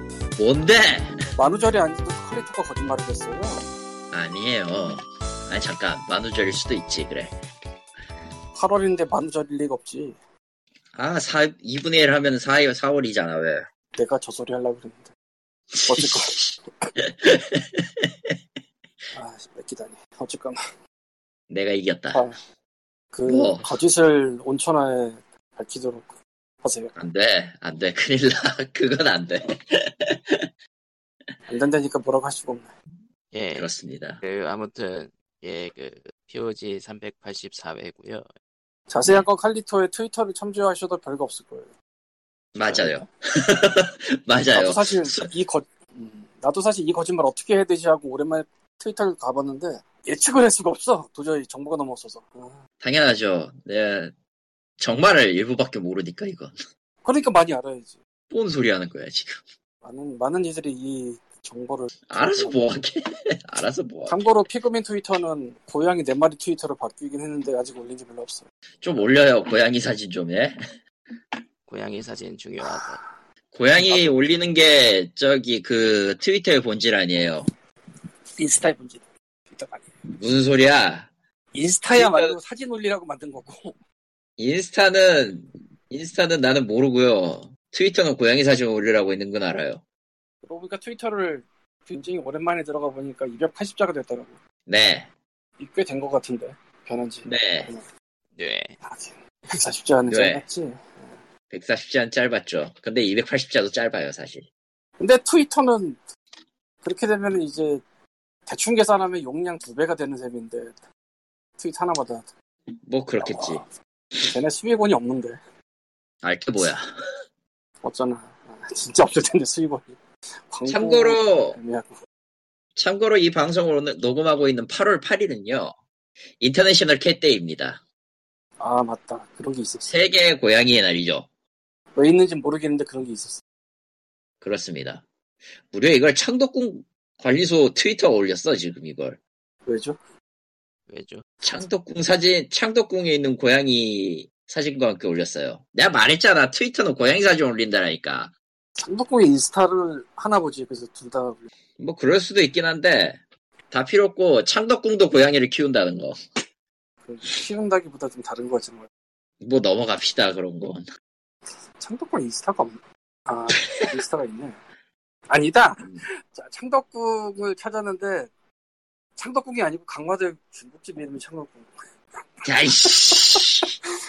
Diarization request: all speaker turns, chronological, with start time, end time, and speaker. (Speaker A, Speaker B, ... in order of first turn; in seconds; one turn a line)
Speaker A: 0.4-1.2
Speaker B: 1.3-3.6
Speaker A: 4.1-7.4
Speaker B: 8.5-10.2
Speaker A: 10.9-13.7
Speaker B: 13.9-15.1
Speaker A: 15.7-18.4
Speaker B: 15.8-16.9
Speaker B: 19.1-20.6
Speaker A: 21.5-22.2
Speaker B: 23.1-26.9
Speaker A: 23.3-23.7
Speaker A: 26.9-30.5
Speaker B: 31.5-32.7
Speaker C: 33.3-33.7
Speaker A: 33.5-34.2
Speaker C: 34.2-38.2
Speaker B: 38.9-41.7
Speaker A: 42.5-45.2
Speaker B: 42.7-43.0
Speaker B: 44.5-52.6
Speaker A: 52.8-54.1
Speaker A: 54.8-56.5
Speaker B: 57.0-58.0
Speaker A: 58.3-59.4
Speaker B: 59.8-62.6
Speaker A: 62.1-64.2
Speaker B: 64.0-68.4
Speaker A: 68.8-70.6
Speaker C: 71.7-73.0
Speaker B: 72.6-73.1
Speaker A: 73.5-77.5
Speaker B: 78.4-79.9
Speaker A: 80.2-81.1
Speaker B: 81.5-83.8
Speaker A: 81.9-82.3
Speaker A: 84.4-89.8
Speaker B: 90.4-94.4
Speaker A: 94.7-95.1
Speaker B: 95.6-97.8
Speaker A: 97.2-97.7
Speaker C: 98.4-98.7
Speaker B: 98.8-101.1
Speaker A: 100.1-100.4
Speaker A: 101.5-104.5
Speaker B: 105.0-106.0
Speaker B: 106.8-107.8
Speaker B: 108.5-110.8
Speaker B: 111.6-112.3
Speaker A: 112.8-113.6
Speaker B: 113.2-115.4
Speaker A: 116.2-116.8
Speaker B: 117.8-119.9
Speaker B: 120.5-121.9
Speaker A: 120.7-121.6
Speaker A: 122.8-125.7
Speaker A: 126.4-127.8
Speaker B: 128.6-129.9
Speaker A: 129.8-131.2
Speaker B: 131.9-133.4
Speaker A: 134.4-135.0
Speaker A: 135.7-139.2
Speaker B: 139.7-140.0
Speaker C: 140.9-141.2
Speaker A: 141.4-148.3
Speaker B: 148.8-151.5
Speaker A: 151.8-153.2
Speaker A: 153.7-156.2
Speaker B: 157.0-158.9
Speaker A: 159.4-160.8
Speaker B: 161.8-164.6
Speaker A: 163.6-163.9
Speaker B: 165.3-168.3
Speaker B: 169.2-171.7
Speaker B: 172.4-173.5
Speaker A: 172.4-173.7